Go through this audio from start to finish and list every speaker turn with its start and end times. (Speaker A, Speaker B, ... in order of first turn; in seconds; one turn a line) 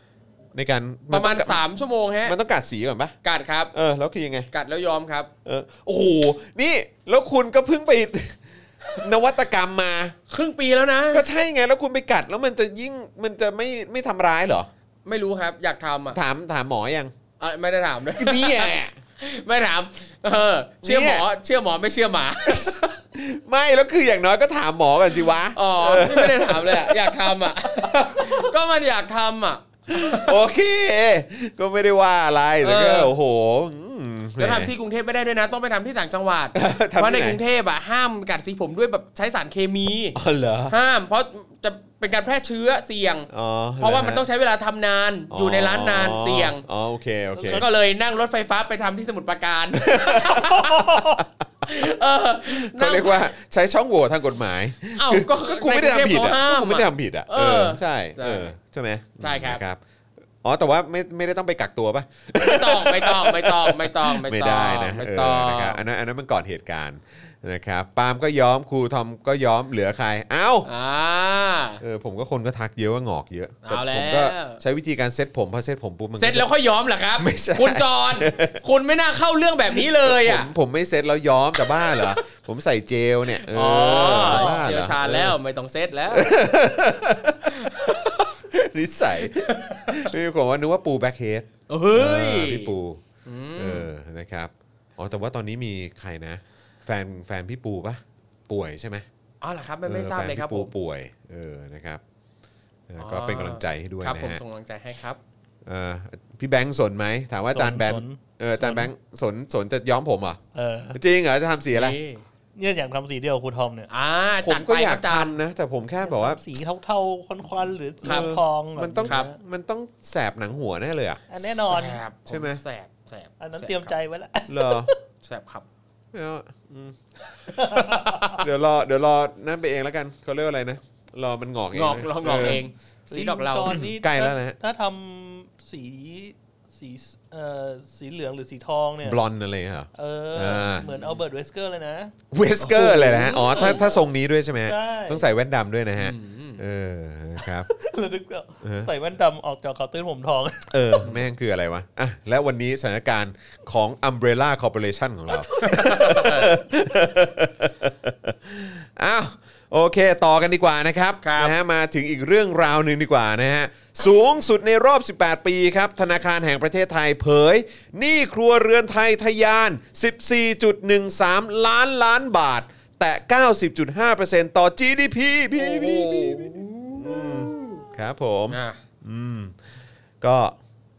Speaker A: 0.5-1.6
Speaker B: 1.1-2.3
Speaker A: 2.2-3.1
Speaker B: 3.2-3.7
Speaker A: 3.7-4.5
Speaker B: 4.5-5.3
Speaker A: 5.4-8.4
Speaker A: 9.0-10.2
Speaker B: 10.3-11.2
Speaker A: 11.1-14.7
Speaker B: 15.0-16.2
Speaker A: 16.1-17.1
Speaker B: 17.4-22.9
Speaker A: 18.2-18.9
Speaker A: 20.8-21.2
Speaker A: 22.4-27.3
Speaker B: 25.5-30.4
Speaker A: 28.1-28.5
Speaker A: 29.9-34.7
Speaker B: 32.6-33.1
Speaker B: 34.4-40.2
Speaker A: 36.5-37.4
Speaker A: 40.1-40.7
Speaker B: 40.7-43.3
Speaker A: 43.3-44.2
Speaker B: 43.8-46.6
Speaker A: 45.3-47.6
Speaker B: 47.4-51.0
Speaker A: 49.8-51.9
Speaker B: 51.6-53.3
Speaker A: 52.4-59.8
Speaker B: 55.0-58.5
Speaker B: 59.2-59.6
Speaker A: 60.4-70.7
Speaker B: 62.4-65.8
Speaker B: 70.6-71.8
Speaker A: 71.8-76.5
Speaker B: 73.6-74.6
Speaker B: 76.2-80.5
Speaker A: 77.2-78.6
Speaker A: 79.7-85.4
Speaker B: 81.7-82.2
Speaker B: 83.4-86.3
Speaker C: 83.9-84.7
Speaker A: 86.1-93.0
Speaker B: 87.5-88.3
Speaker B: 89.2-90.1
Speaker B: 91.7-92.7
Speaker B: 93.2-93.9
Speaker A: 93.6-99.0
Speaker B: 99.4-100.7
Speaker A: 99.8-102.0
Speaker A: 102.9-104.4
Speaker B: 103.0-105.2
Speaker A: 105.6-110.4
Speaker C: 107.5-108.9
Speaker C: 110.5-111.0
Speaker A: 110.9-112.0
Speaker B: 111.7-112.2
Speaker C: 112.5-113.9
Speaker B: 113.9-115.4
Speaker A: 114.4-116.4
Speaker C: 116.0-119.3
Speaker B: 118.0-118.3
Speaker A: 118.0-121.2
Speaker C: 121.3-122.0
Speaker B: 121.7-123.9
Speaker A: 122.3-122.6
Speaker C: 123.4-125.0
Speaker A: 124.5-124.9
Speaker B: 125.2-125.6
Speaker A: 126.1-127.0
Speaker B: 127.3-128.4
Speaker C: 127.6-128.3
Speaker A: 128.3-132.6
Speaker B: 131.7-133.8
Speaker C: 132.3-139.2
Speaker A: 133.7-134.5
Speaker A: 139.0-140.9
Speaker C: 139.9-142.1
Speaker B: 140.8-141.2
Speaker A: 142.3-147.7
Speaker B: 142.6-143.8
Speaker C: 142.7-144.0
Speaker C: 144.6-145.3
Speaker B: 146.0-146.6
Speaker C: 147.4-151.1
Speaker A: 148.6-148.9
Speaker A: 150.7-179.6
Speaker B: 155.6-156.5
Speaker B: 161.2-161.5
Speaker B: 175.6-177.8
Speaker B: 178.5-178.8
Speaker A: 180.2-180.6